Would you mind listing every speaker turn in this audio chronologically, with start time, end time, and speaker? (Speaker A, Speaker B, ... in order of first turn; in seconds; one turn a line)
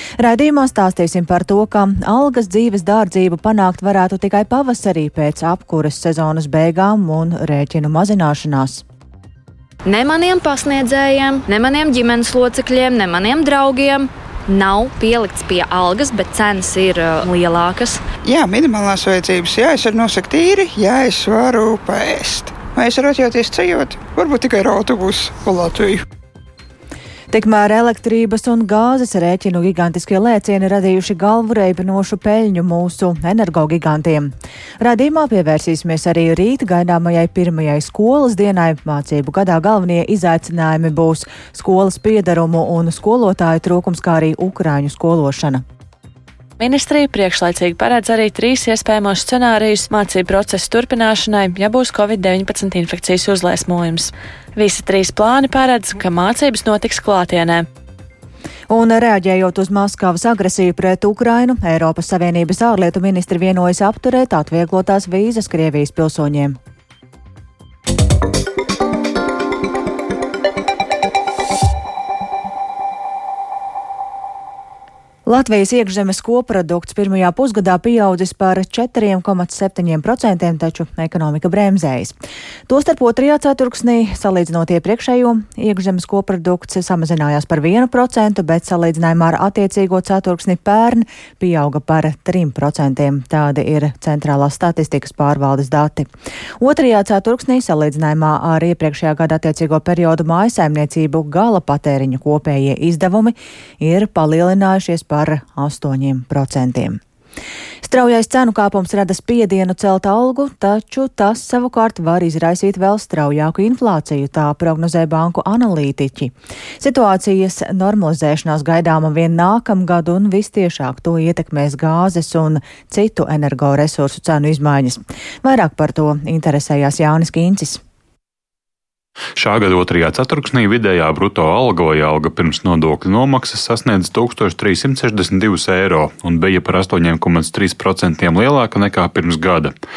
Speaker A: 0.2-8.8
Speaker B: 9.8-18.0
Speaker C: 18.2-26.0
Speaker A: 27.3-45.6
Speaker D: 46.6-57.6
Speaker A: 58.7-66.6
Speaker A: 75.3-82.2
Speaker A: 82.7-96.1
Speaker A: 96.6-107.0
Speaker A: 107.8-127.8
Speaker E: 129.4-139.7